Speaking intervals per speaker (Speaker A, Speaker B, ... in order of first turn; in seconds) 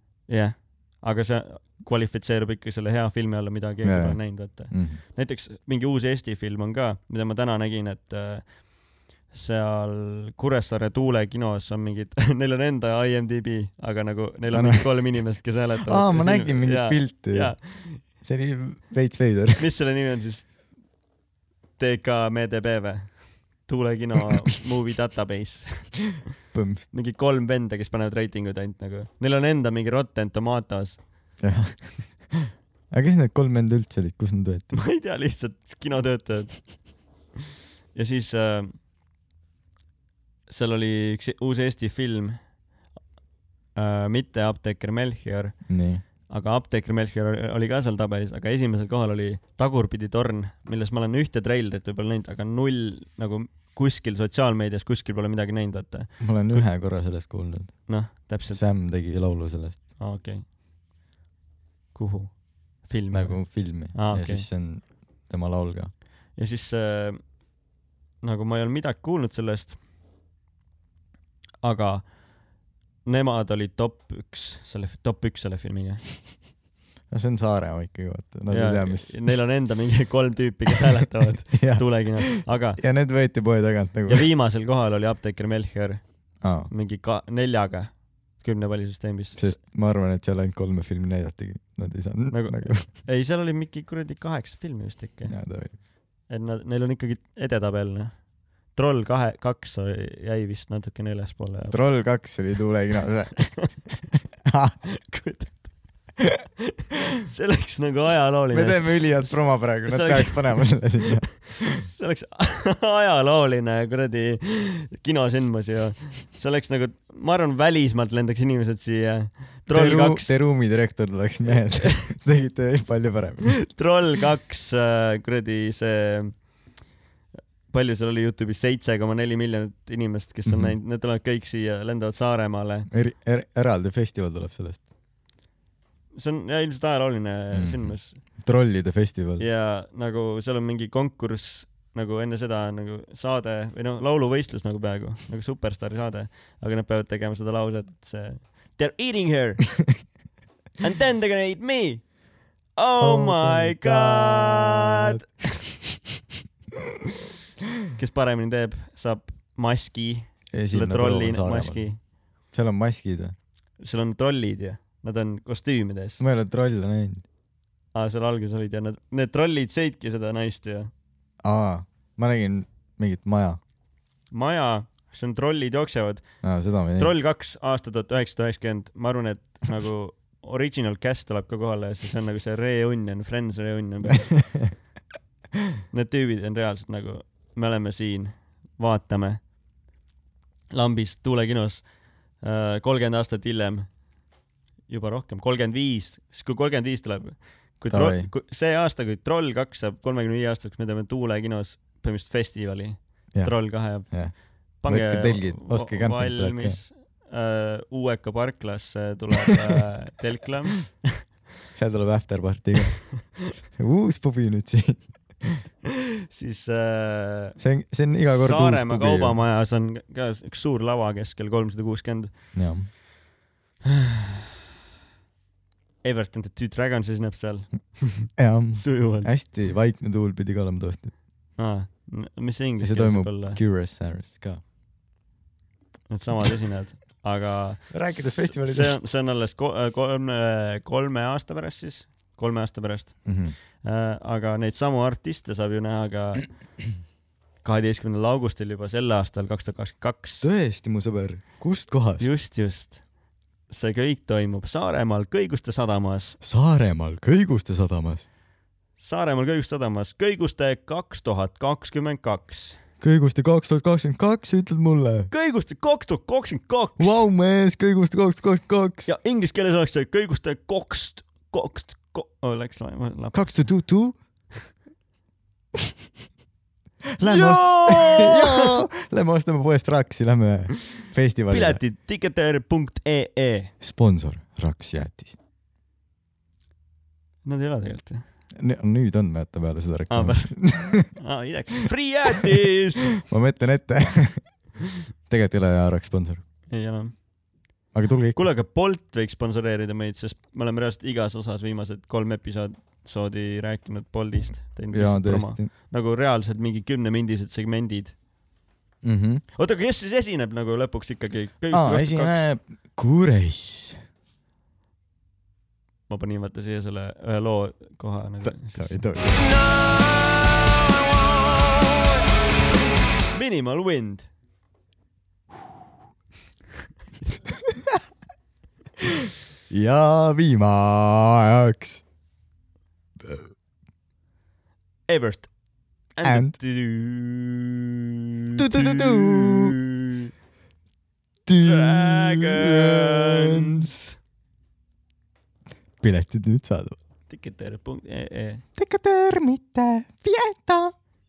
Speaker A: 0.3-8.7, 9.3-18.0, 19.6-20.5, 21.8-26.2, 26.9-31.0, 34.7-36.8, 37.9-38.8, 40.5-42.4, 43.8-45.7, 46.3-56.7, 57.9-58.6, 60.0-60.5, 61.9-64.5, 66.4-67.3, 68.2-69.8, 71.6-72.1, 73.0-76.1, 78.5-82.8, 84.1-86.0, 86.7-89.6, 92.3-95.4, 96.3-101.8, 104.9-105.7, 107.2-120.4, 121.5-122.0, 123.7-126.5, 127.7-132.9, 136.1-138.2, 139.4-149.9, 150.8-152.1, 152.7-155.2, 157.9-162.0, 163.8-166.2, 167.9-170.9, 174.3-176.2, 177.0-184.4, 185.9-189.4, 190.7-191.9, 192.4-193.9, 194.9-211.2, 216.3-217.6, 218.2-222.3, 226.0-229.3, 231.6-233.6, 236.1-246.5, 247.6-250.5, 252.2-253.0, 253.7-256.4, 259.0-262.8, 265.3-267.2, 269.1-273.4, 277.2-278.7, 281.5-283.7, 287.4-288.2, 290.1-293.1, 296.7-297.1, 298.3-308.1, 309.6-312.5, 316.1-320.6, 321.1-322.1, 323.3-324.3, 335.1-335.5, 336.1-337.9, 338.6-340.3, 341.6-344.1, 347.3-348.6
Speaker B: 3.8-5.0, 14.5-15.2, 15.9-19.7, 26.5-26.9, 31.4-34.8, 45.7-46.0, 56.2-57.9, 58.5-59.9, 63.1-65.9, 77.1-79.2, 81.5-84.3, 86.4-86.7, 89.4-92.9, 95.3-95.8, 101.7-103.8, 104.5-104.8, 108.5-111.8, 119.7-123.7, 130.5-130.8, 132.9-134.8, 137.5-139.4, 153.0-155.2, 160.5-161.9, 162.5-163.3, 166.2-167.2, 171.4-173.6, 176.4-177.1, 197.9-198.3, 203.3-206.8, 211.7-213.1, 213.8-215.6, 217.6-219.4, 222.5-222.9, 228.4-231.1, 232.8-234.6, 237.9-239.0, 243.2-243.6, 250.4-252.3, 256.4-258.3, 263.0-265.3, 267.0-269.1, 273.3-274.2, 277.2-281.8, 283.8-285.4, 288.6-291.1, 293.2-294.6, 295.3-296.4, 297.9-298.4, 304.9-305.7, 309.0-309.4, 311.7-314.0, 318.4-319.5, 329.7-332.0, 333.2-333.5, 336.2-336.6, 338.6-339.8, 341.5-343.9, 346.0-347.0, 348.8-350.9